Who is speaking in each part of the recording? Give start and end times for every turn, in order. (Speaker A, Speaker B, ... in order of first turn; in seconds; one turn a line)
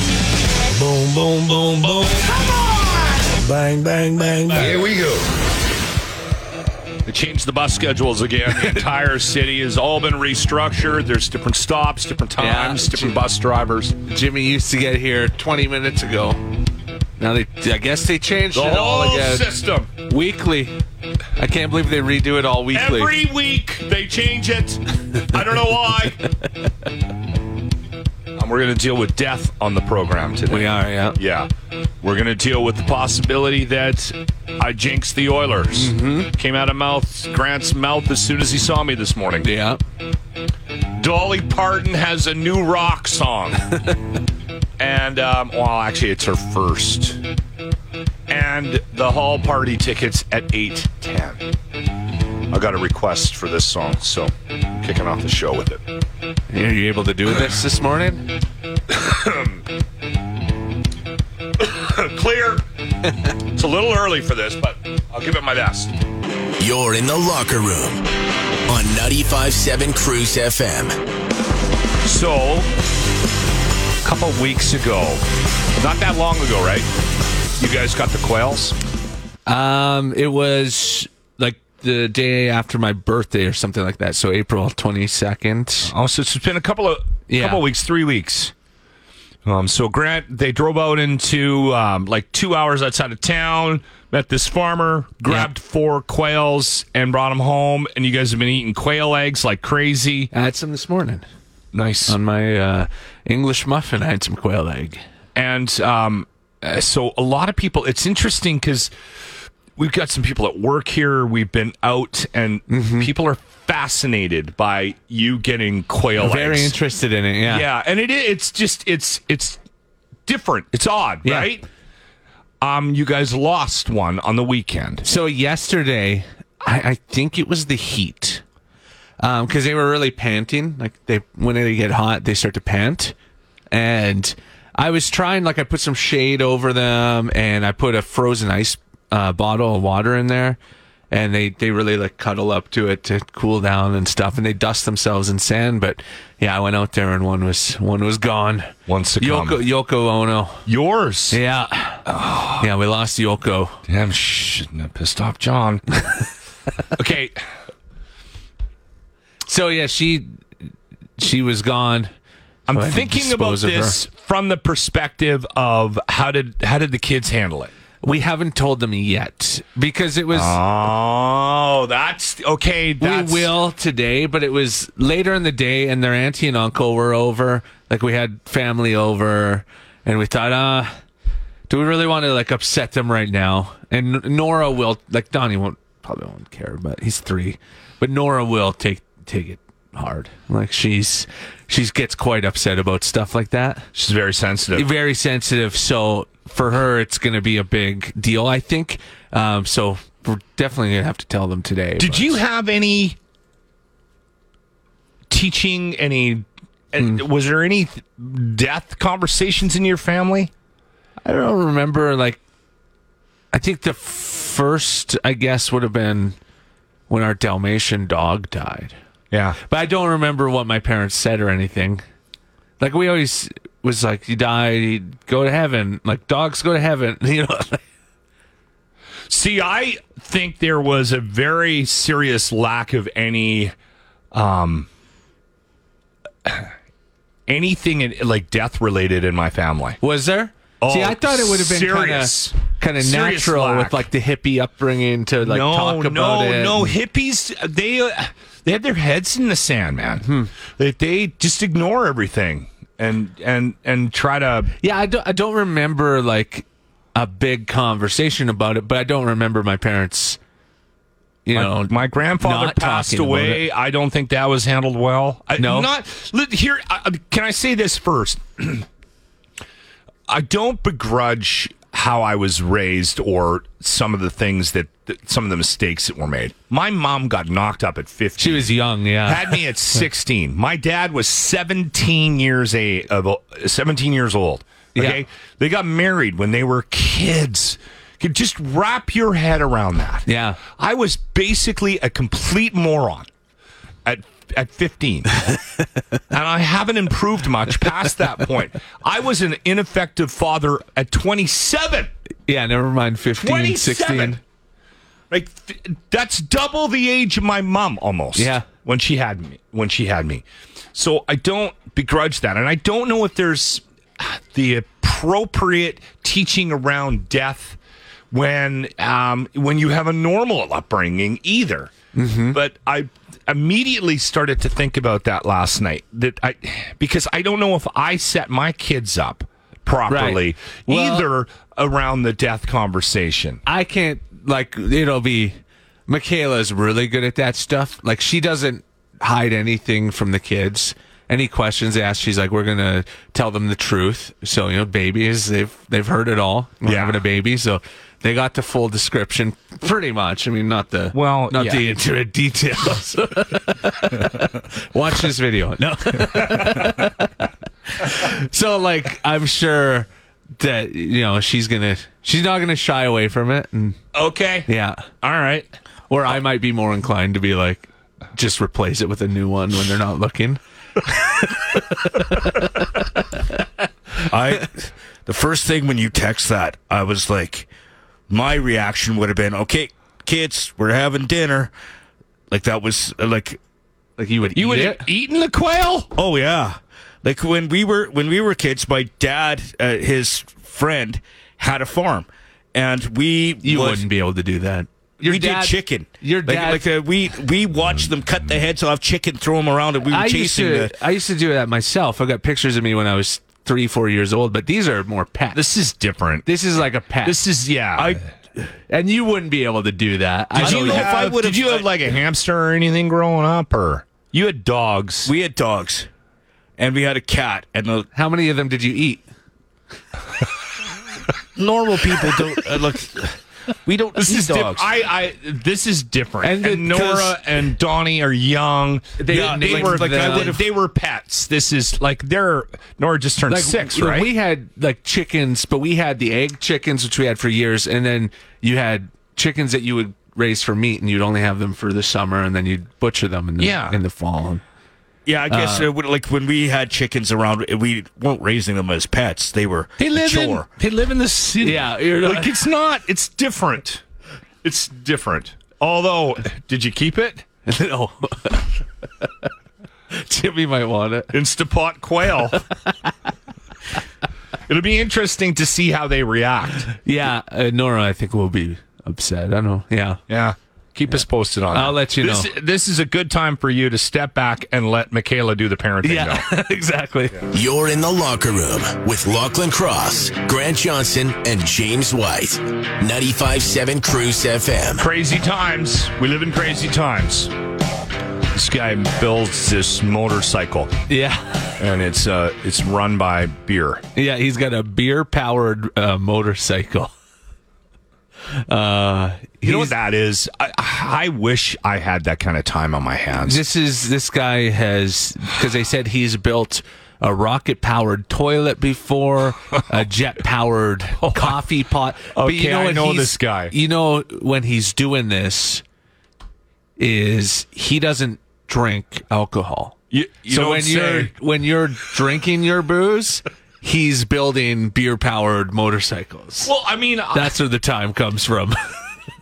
Speaker A: 0.7-5.0
Speaker B: 4.5-4.9
Speaker B: 7.0-14.0
Speaker C: 12.4-13.2
Speaker C: 14.1-16.4
Speaker C: 17.2-20.8
Speaker B: 18.5-19.9
Speaker C: 21.4-23.1
Speaker B: 22.7-26.2
Speaker B: 28.4-31.5
Speaker C: 30.5-31.2
Speaker B: 32.0-39.5
Speaker C: 35.7-36.3
Speaker C: 39.4-39.8
Speaker B: 41.0-43.7
Speaker B: 44.8-47.2
Speaker B: 48.3-51.4
Speaker B: 52.5-55.8
Speaker C: 56.5-58.3
Speaker B: 58.9-59.6
Speaker B: 61.6-62.6
Speaker B: 63.5-65.9
Speaker D: 66.6-68.0
Speaker D: 68.7-71.0
Speaker B: 72.0-72.7
Speaker B: 74.0-75.2
Speaker B: 75.8-76.9
Speaker B: 77.6-78.8
Speaker C: 79.5-85.9
Speaker B: 85.8-88.5
Speaker C: 87.3-87.6
Speaker B: 89.4-100.3
Speaker C: 100.3-101.2
Speaker B: 101.7-102.2
Speaker C: 102.1-105.0
Speaker B: 105.3-108.9
Speaker B: 109.8-116.8
Speaker C: 112.7-113.1
Speaker C: 116.2-117.7
Speaker B: 117.5-119.6
Speaker B: 120.2-121.6
Speaker C: 121.2-121.5
Speaker B: 122.6-125.0
Speaker C: 125.0-128.4
Speaker C: 129.2-133.1
Speaker C: 133.7-140.6
Speaker C: 141.1-150.6
Speaker B: 148.9-149.6
Speaker B: 150.7-151.4
Speaker C: 151.3-153.8
Speaker B: 152.1-152.7
Speaker B: 153.9-155.8
Speaker B: 156.9-157.4
Speaker C: 159.5-160.4
Speaker C: 161.2-162.1
Speaker B: 162.7-167.7
Speaker C: 162.7-164.0
Speaker C: 168.0-170.6
Speaker B: 170.3-173.5
Speaker C: 173.0-180.9
Speaker C: 181.7-193.9
Speaker B: 193.9-194.9
Speaker C: 194.7-202.4
Speaker B: 202.0-203.2
Speaker B: 205.3-210.5
Speaker C: 211.2-212.4
Speaker C: 213.5-216.3
Speaker C: 217.1-218.9
Speaker B: 219.3-219.6
Speaker C: 219.7-222.0
Speaker C: 222.8-227.8
Speaker B: 229.3-233.7
Speaker B: 234.3-234.9
Speaker B: 236.4-236.7
Speaker B: 237.5-240.0
Speaker C: 240.0-246.9
Speaker B: 240.8-244.1
Speaker B: 245.4-254.7
Speaker C: 250.2-250.5
Speaker C: 254.8-260.4
Speaker C: 261.4-263.6
Speaker B: 261.5-268.9
Speaker C: 265.6-265.9
Speaker B: 270.3-278.7
Speaker C: 278.4-279.6
Speaker B: 279.2-293.3
Speaker C: 284.9-285.2
Speaker C: 290.2-290.6
Speaker B: 294.0-295.6
Speaker B: 296.3-302.1
Speaker C: 302.5-304.4
Speaker B: 303.4-304.4
Speaker B: 305.3-317.8
Speaker C: 308.4-308.7
Speaker B: 318.3-321.9
Speaker C: 322.1-322.6
Speaker B: 322.5-333.6
Speaker C: 330.1-331.3
Speaker C: 333.6-364.0
Speaker B: 346.8-347.2
Speaker B: 351.1-351.9
Speaker B: 356.4-356.9
Speaker B: 364.1-364.7
Speaker C: 364.7-365.1
Speaker B: 365.2-365.7
Speaker C: 366.1-372.9
Speaker E: 374.3-377.7
Speaker E: 378.3-381.7
Speaker E: 382.5-383.6
Speaker C: 384.2-385.1
Speaker B: 384.5-386.1
Speaker E: 386.1-394.1
Speaker C: 393.6-396.9
Speaker E: 395.2-400.9
Speaker C: 400.1-405.6
Speaker B: 405.5-406.5
Speaker C: 406.4-407.4
Speaker B: 407.2-408.2
Speaker C: 408.6-411.1
Speaker E: 410.5-411.9
Speaker B: 410.6-415.3
Speaker E: 415.2-416.1
Speaker E: 416.8-418.1
Speaker C: 418.1-419.2
Speaker E: 421.6-424.9
Speaker B: 424.1-434.3
Speaker C: 426.4-427.3
Speaker C: 429.2-430.5
Speaker E: 429.3-430.6
Speaker C: 433.5-444.6
Speaker B: 443.6-444.0
Speaker E: 445.2-450.6
Speaker C: 445.5-445.9
Speaker B: 450.0-454.0
Speaker C: 451.6-452.6
Speaker B: 454.6-457.4
Speaker C: 457.6-459.3
Speaker C: 460.1-461.3
Speaker B: 461.3-462.6
Speaker B: 464.7-466.9
Speaker C: 467.0-470.2
Speaker B: 470.3-476.5
Speaker C: 471.7-472.5
Speaker C: 476.0-477.4
Speaker D: 477.5-485.1
Speaker B: 484.9-487.5
Speaker B: 488.5-490.9
Speaker C: 491.1-491.7
Speaker B: 491.8-494.0
Speaker C: 494.1-497.1
Speaker C: 498.6-499.9
Speaker B: 499.6-503.6
Speaker C: 503.4-515.8
Speaker B: 511.2-511.6
Speaker B: 512.3-513.7
Speaker C: 517.0-519.9
Speaker B: 520.1-521.3
Speaker C: 520.5-526.7
Speaker B: 526.6-527.5
Speaker C: 527.3-528.8